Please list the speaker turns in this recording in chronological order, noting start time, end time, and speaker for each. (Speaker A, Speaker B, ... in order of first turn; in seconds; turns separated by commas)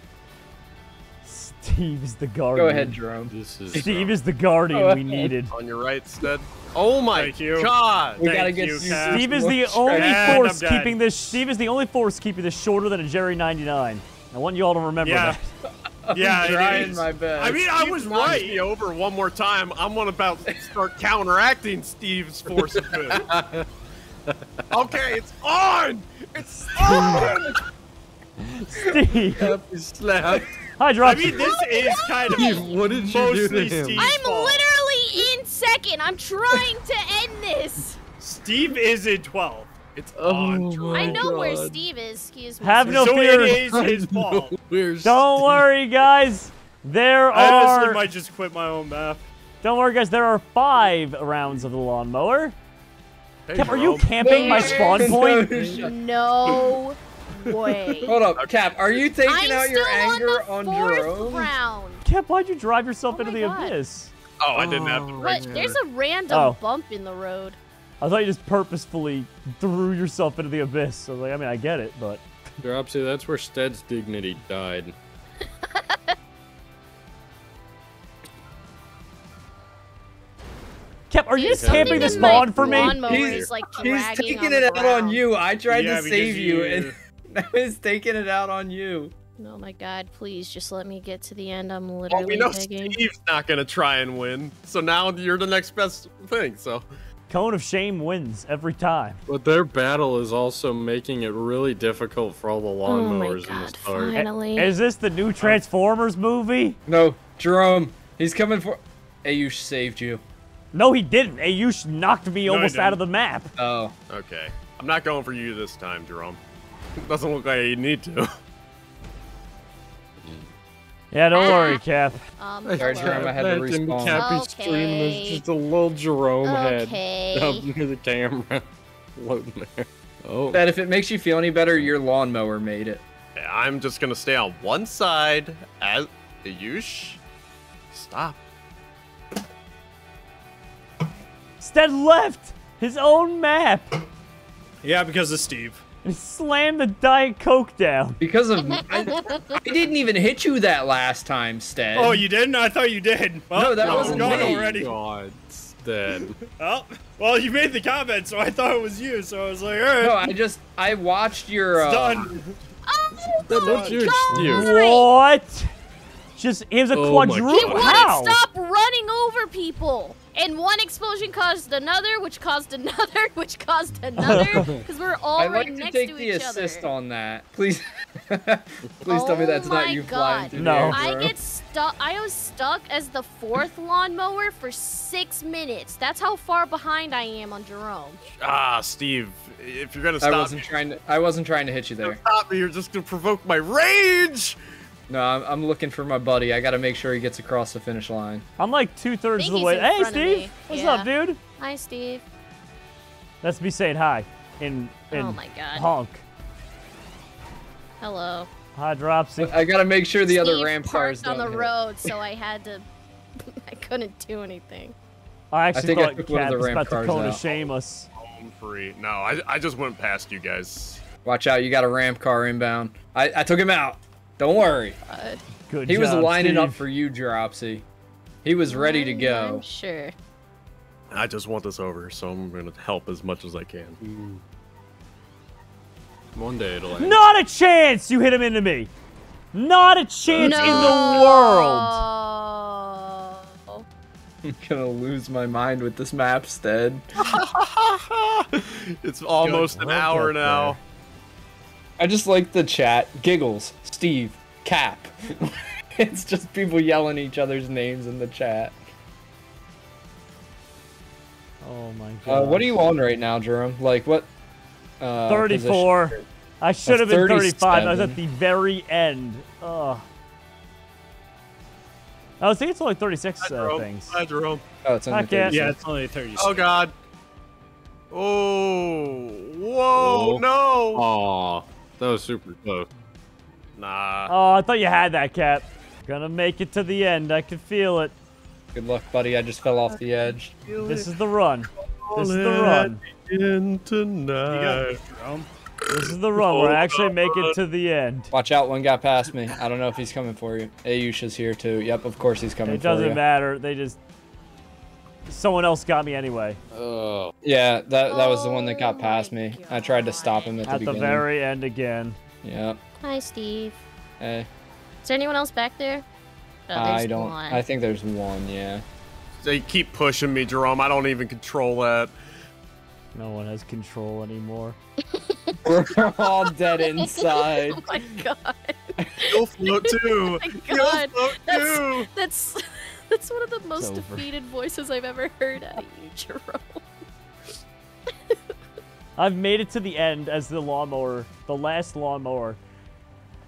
Speaker A: 1.2-3.0, Speaker B: 2.5-3.3, Speaker C: 3.3-4.2, Speaker A: 3.7-5.5, Speaker B: 4.7-5.3, Speaker D: 5.5-8.2, Speaker E: 7.1-9.3, Speaker B: 8.2-10.4, Speaker A: 8.8-15.4, Speaker E: 9.9-11.4, Speaker E: 15.0-15.4, Speaker B: 16.0-17.6, Speaker E: 16.1-18.6, Speaker D: 17.7-23.3, Speaker C: 22.5-23.7, Speaker C: 24.3-24.7, Speaker D: 24.7-27.5, Speaker A: 26.8-27.4, Speaker B: 26.8-27.6, Speaker C: 26.9-27.3, Speaker A: 28.4-29.5, Speaker B: 28.8-29.0, Speaker C: 29.3-30.6, Speaker A: 30.8-31.5, Speaker E: 31.0-34.6, Speaker F: 31.4-32.8, Speaker C: 32.3-34.1, Speaker F: 34.0-38.0, Speaker E: 38.2-39.7, Speaker D: 39.9-41.2, Speaker C: 40.2-41.8, Speaker E: 40.2-41.3, Speaker F: 40.9-43.3, Speaker A: 42.6-43.6, Speaker E: 42.9-44.5, Speaker C: 43.4-45.6, Speaker A: 45.0-48.0, Speaker E: 47.3-49.3, Speaker A: 49.6-52.5, Speaker D: 53.5-54.9, Speaker A: 53.5-55.5, Speaker B: 54.2-55.9, Speaker F: 54.6-55.0, Speaker C: 55.5-55.8, Speaker F: 55.7-58.2, Speaker B: 58.0-61.5, Speaker D: 58.3-59.0, Speaker F: 59.2-62.0, Speaker A: 62.0-64.1, Speaker F: 63.1-63.7, Speaker D: 64.4-65.7, Speaker C: 64.5-65.8, Speaker F: 65.2-67.6, Speaker A: 66.3-66.6, Speaker A: 68.0-72.2, Speaker C: 72.6-74.9, Speaker F: 75.6-76.1, Speaker A: 81.1-83.1, Speaker F: 81.3-85.2, Speaker C: 81.5-83.5, Speaker B: 83.0-89.1, Speaker E: 85.7-87.0, Speaker F: 89.4-93.0, Speaker D: 92.1-96.8, Speaker A: 97.3-99.2, Speaker C: 99.3-104.2, Speaker F: 102.9-104.7, Speaker A: 104.1-106.8, Speaker B: 106.9-110.2, Speaker A: 110.7-113.5, Speaker E: 112.4-113.0, Speaker B: 113.5-113.9, Speaker D: 114.1-116.4, Speaker D: 117.0-118.3, Speaker C: 120.2-120.5, Speaker A: 121.1-122.2, Speaker F: 121.3-121.8, Speaker F: 122.4-123.4, Speaker C: 122.6-130.7, Speaker B: 122.8-124.3, Speaker F: 124.1-125.4, Speaker F: 126.4-127.6, Speaker B: 130.5-133.0, Speaker D: 133.3-137.2, Speaker D: 137.9-138.4, Speaker A: 141.6-143.9, Speaker E: 144.8-145.8, Speaker A: 146.0-148.2, Speaker B: 148.2-152.2, Speaker F: 148.8-149.5, Speaker E: 151.9-154.9, Speaker B: 153.5-154.8, Speaker C: 153.7-156.3, Speaker E: 156.6-160.3, Speaker B: 160.0-162.3, Speaker E: 161.7-162.5, Speaker F: 162.8-165.1, Speaker C: 163.5-164.7, Speaker E: 163.5-164.1, Speaker A: 164.3-165.7, Speaker A: 166.3-168.4, Speaker C: 166.9-168.0, Speaker F: 167.5-176.9, Speaker A: 174.2-174.7, Speaker C: 174.3-174.8, Speaker B: 175.4-181.3, Speaker F: 179.1-188.2, Speaker A: 180.5-181.0, Speaker D: 188.4-190.7, Speaker B: 190.2-192.2, Speaker D: 192.0-194.6, Speaker B: 195.1-198.4, Speaker A: 198.6-201.4, Speaker F: 199.4-202.2, Speaker A: 203.4-206.2, Speaker F: 205.1-205.9, Speaker F: 208.0-208.5, Speaker A: 208.7-209.6, Speaker B: 209.4-212.1, Speaker F: 210.3-212.8, Speaker F: 213.4-214.9, Speaker A: 215.5-218.1, Speaker B: 215.7-217.4, Speaker D: 218.2-221.0, Speaker B: 221.2-225.0, Speaker F: 225.0-225.4, Speaker A: 225.7-226.8, Speaker B: 225.8-227.8, Speaker B: 228.4-229.6, Speaker F: 228.7-230.1, Speaker D: 231.1-234.0, Speaker C: 234.0-234.4, Speaker C: 236.3-237.2, Speaker A: 237.0-238.9, Speaker A: 239.5-242.0, Speaker D: 240.3-241.2, Speaker F: 240.4-243.8, Speaker B: 244.4-247.0, Speaker D: 247.2-250.8, Speaker C: 249.4-250.7, Speaker A: 250.1-250.7, Speaker B: 252.0-258.8, Speaker A: 261.6-262.7, Speaker B: 262.2-264.3, Speaker B: 265.0-266.2, Speaker A: 265.3-270.0, Speaker B: 266.9-268.2, Speaker A: 272.4-274.1, Speaker D: 273.4-274.6, Speaker B: 274.8-275.8, Speaker A: 275.1-275.6, Speaker E: 275.5-276.6, Speaker D: 276.4-276.9, Speaker D: 278.1-281.1, Speaker C: 279.9-282.9, Speaker D: 283.8-284.3, Speaker A: 284.3-288.1, Speaker B: 288.7-290.5, Speaker D: 289.9-291.1, Speaker A: 290.8-293.0, Speaker D: 292.0-295.0, Speaker E: 294.5-295.5, Speaker A: 295.9-298.3, Speaker D: 295.9-297.5, Speaker B: 298.3-303.2, Speaker A: 302.6-304.0, Speaker A: 305.3-306.6, Speaker C: 306.7-307.3, Speaker B: 307.4-311.2, Speaker F: 308.1-310.8, Speaker A: 310.7-312.2, Speaker B: 312.4-312.8, Speaker F: 313.0-313.8, Speaker B: 314.2-314.5, Speaker F: 315.0-316.0, Speaker F: 316.7-317.6, Speaker B: 316.7-318.8, Speaker D: 319.4-322.1, Speaker A: 323.1-324.8, Speaker F: 325.1-336.8, Speaker B: 325.6-328.2, Speaker D: 329.3-332.1, Speaker A: 333.8-334.3, Speaker F: 338.1-338.4, Speaker A: 339.2-342.6